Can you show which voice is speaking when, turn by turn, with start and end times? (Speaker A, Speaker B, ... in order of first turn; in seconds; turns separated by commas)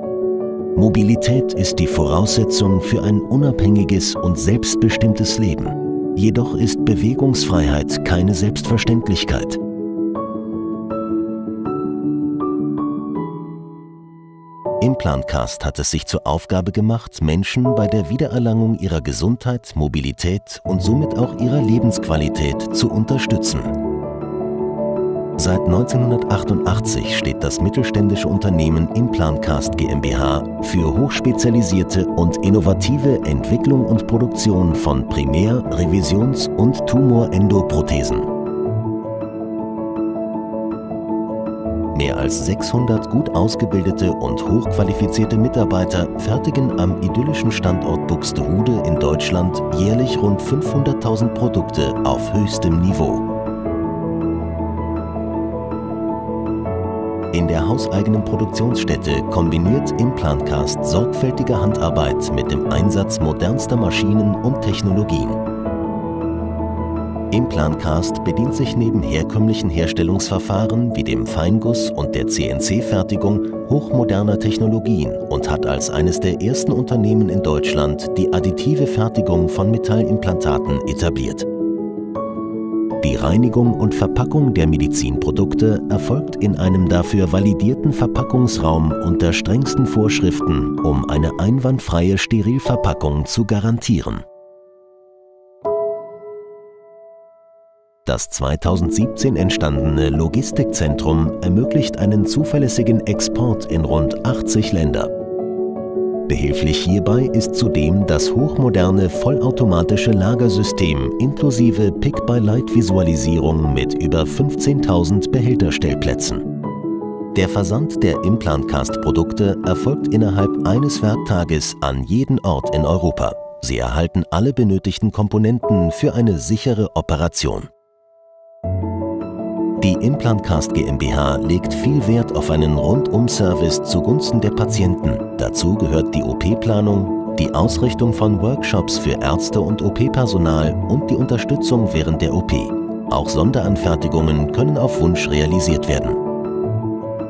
Speaker A: 0.8-9.6, Speaker A: 14.8-23.8, Speaker A: 25.4-38.3, Speaker A: 41.9-53.3, Speaker A: 57.3-65.4, Speaker A: 67.3-81.5, Speaker A: 83.0-94.2, Speaker A: 98.0-105.1, Speaker A: 106.3-116.5, Speaker A: 117.3-127.7, Speaker A: 129.8-146.2